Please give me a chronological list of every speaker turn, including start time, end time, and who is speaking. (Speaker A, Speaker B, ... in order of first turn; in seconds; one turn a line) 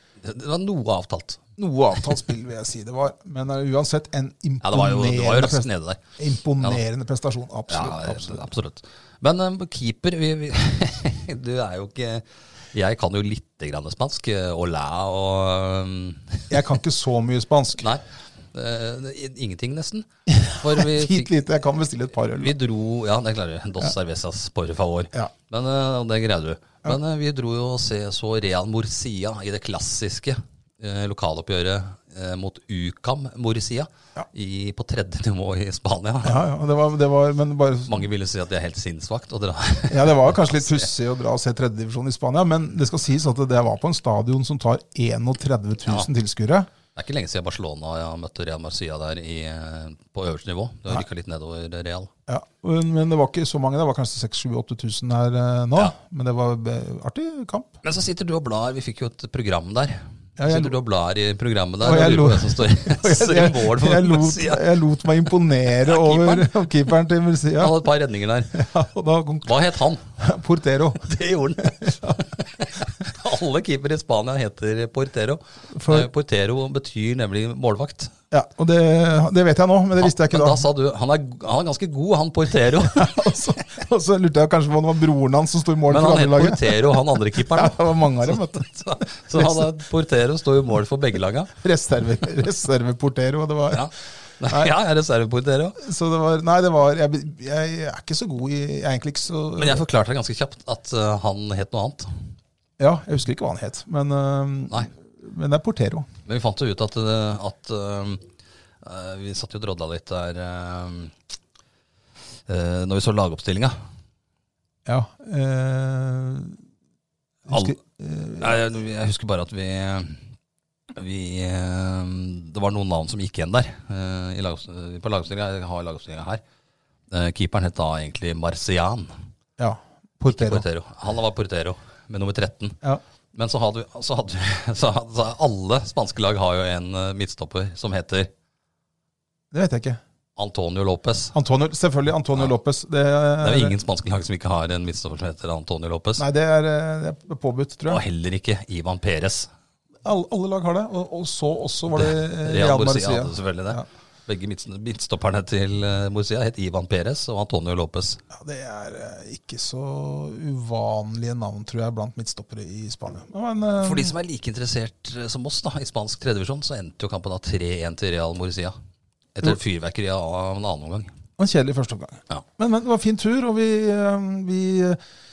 Speaker A: 0.2-1.5
Speaker B: 1.6-8.5
Speaker A: 4.6-6.0
Speaker A: 7.7-16.6
Speaker B: 16.5-17.9
Speaker A: 17.8-21.3
Speaker B: 20.3-22.6
Speaker A: 22.4-36.5
Speaker B: 36.2-38.0
Speaker A: 37.9-40.9
Speaker B: 39.9-46.7
Speaker A: 47.0-52.1
Speaker B: 52.3-57.8
Speaker A: 57.8-64.7
Speaker B: 60.4-60.8
Speaker B: 61.8-67.8
Speaker A: 65.8-66.7
Speaker A: 67.5-68.7
Speaker B: 68.5-69.5
Speaker A: 69.5-70.0
Speaker B: 70.2-72.2
Speaker A: 71.0-78.1
Speaker B: 75.7-76.1
Speaker B: 78.3-80.7
Speaker A: 80.0-83.3
Speaker B: 82.9-88.7
Speaker A: 85.9-91.5
Speaker B: 89.3-89.7
Speaker B: 91.6-93.9
Speaker A: 93.7-95.8
Speaker B: 94.5-94.7
Speaker B: 95.8-99.8
Speaker A: 99.6-102.2
Speaker B: 102.8-106.1
Speaker A: 106.3-108.3
Speaker A: 108.8-111.1
Speaker A: 112.5-113.8
Speaker B: 114.9-116.6
Speaker B: 117.5-118.6
Speaker A: 117.5-117.8
Speaker A: 118.4-120.2
Speaker A: 120.9-126.4
Speaker A: 127.1-129.1
Speaker B: 129.6-130.6
Speaker A: 130.3-132.8
Speaker A: 133.3-138.3
Speaker B: 139.5-140.0
Speaker A: 140.4-141.3
Speaker B: 141.3-143.7
Speaker A: 143.4-146.2
Speaker B: 146.2-148.0
Speaker A: 147.9-149.5
Speaker B: 150.0-153.8
Speaker A: 151.9-158.2
Speaker B: 158.3-164.2
Speaker A: 163.8-168.8
Speaker A: 169.3-171.1
Speaker B: 171.4-175.0